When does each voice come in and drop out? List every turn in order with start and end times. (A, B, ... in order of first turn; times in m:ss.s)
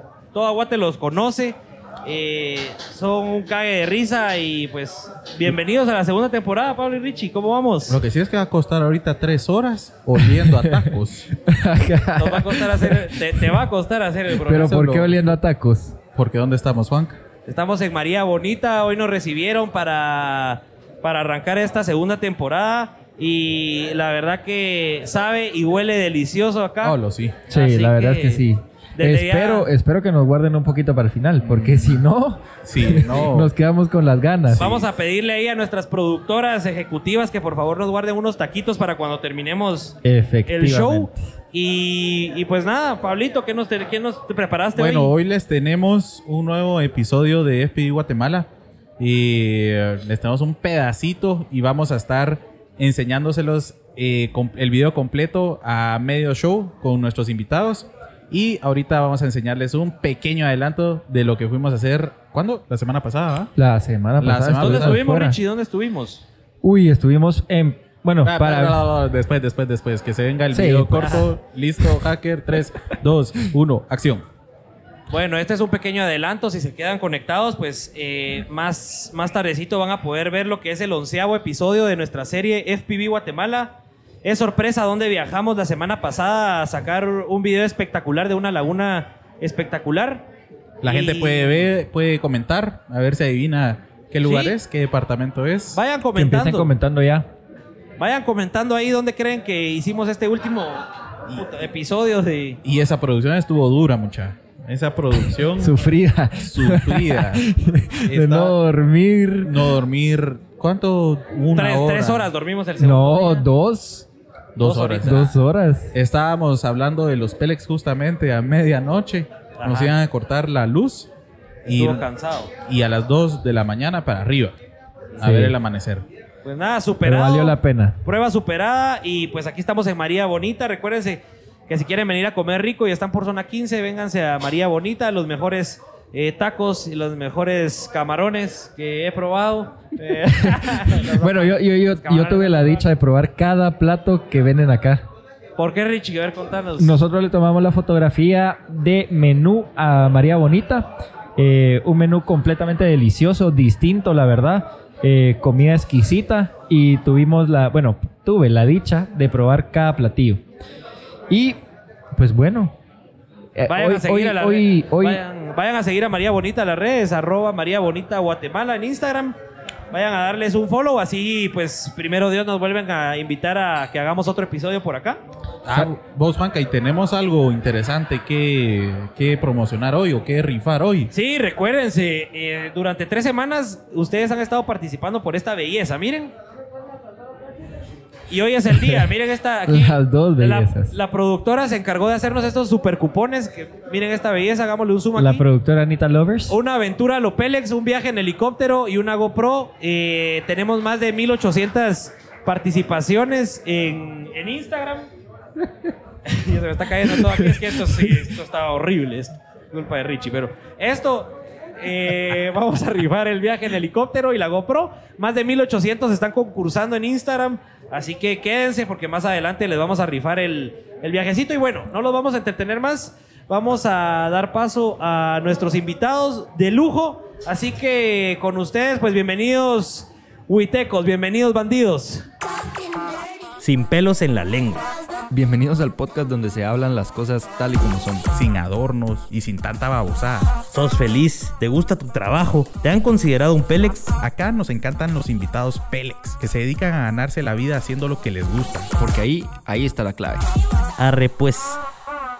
0:00.3-0:08.0 A
0:07.9-0:11.3 B
0:10.2-0:10.8 C
0:11.4-0:13.1 C
0:12.2-0:14.7 A
0:14.4-0:16.0 C
0:14.5-0:15.3 B
0:16.1-0:17.2 B
0:17.5-0:27.0 A
0:26.8-0:27.4 B
0:27.5-0:34.7 C
0:27.5-0:28.4 A
0:29.0-0:29.7 A
0:31.5-0:31.8 B
0:32.6-0:33.5 B
0:34.5-0:45.1 A
0:40.0-0:41.1 C
0:44.8-1:03.5 B
1:03.6-1:05.4 C
1:04.2-1:05.0 B
1:04.6-1:06.2 A
1:06.6-1:08.8 C
1:08.2-1:14.2 B
1:10.5-1:11.3 C
1:15.1-1:30.2 A
1:30.8-1:35.8 B
1:30.8-1:31.6 A
1:34.2-1:34.6 A
1:35.7-1:36.7 A
1:36.1-1:37.3 C
1:38.0-1:42.6 A
1:42.6-1:45.8 B
1:45.6-1:49.7 C
1:46.4-1:47.5 B
1:48.1-1:48.6 B
1:49.4-1:52.3 B
1:51.5-1:53.5 A
1:52.8-1:54.1 C
1:54.6-1:55.3 B
1:54.6-1:55.2 A
1:55.0-1:55.9 C
1:55.9-2:01.1 B
1:59.6-1:59.9 A
2:01.6-2:02.1 B
2:01.7-2:02.5 A
2:02.6-2:04.5 B
2:05.2-2:06.0 B
2:05.2-2:05.6 C
2:06.4-2:22.9 A
2:07.0-2:08.0 C
2:20.0-2:25.0 C
2:25.6-2:27.0 A
2:26.8-2:40.4 C
2:41.3-2:41.6 C
2:42.2-2:42.7 C
2:43.6-2:45.2 C
2:43.6-2:49.4 A
2:49.9-2:55.2 A
2:55.6-3:01.1 B
3:01.1-3:06.3 A
3:08.3-3:15.4 A
3:09.7-3:10.9 C
3:15.1-3:16.6 C
3:16.5-3:25.1 A
3:26.2-3:52.2 A
3:27.1-3:28.1 C
3:53.6-3:54.8 D
3:55.3-3:58.3 E
3:58.3-4:00.5 B
3:59.5-4:06.4 D
4:04.2-4:08.9 B
4:09.0-4:10.5 E
4:11.0-4:11.8 D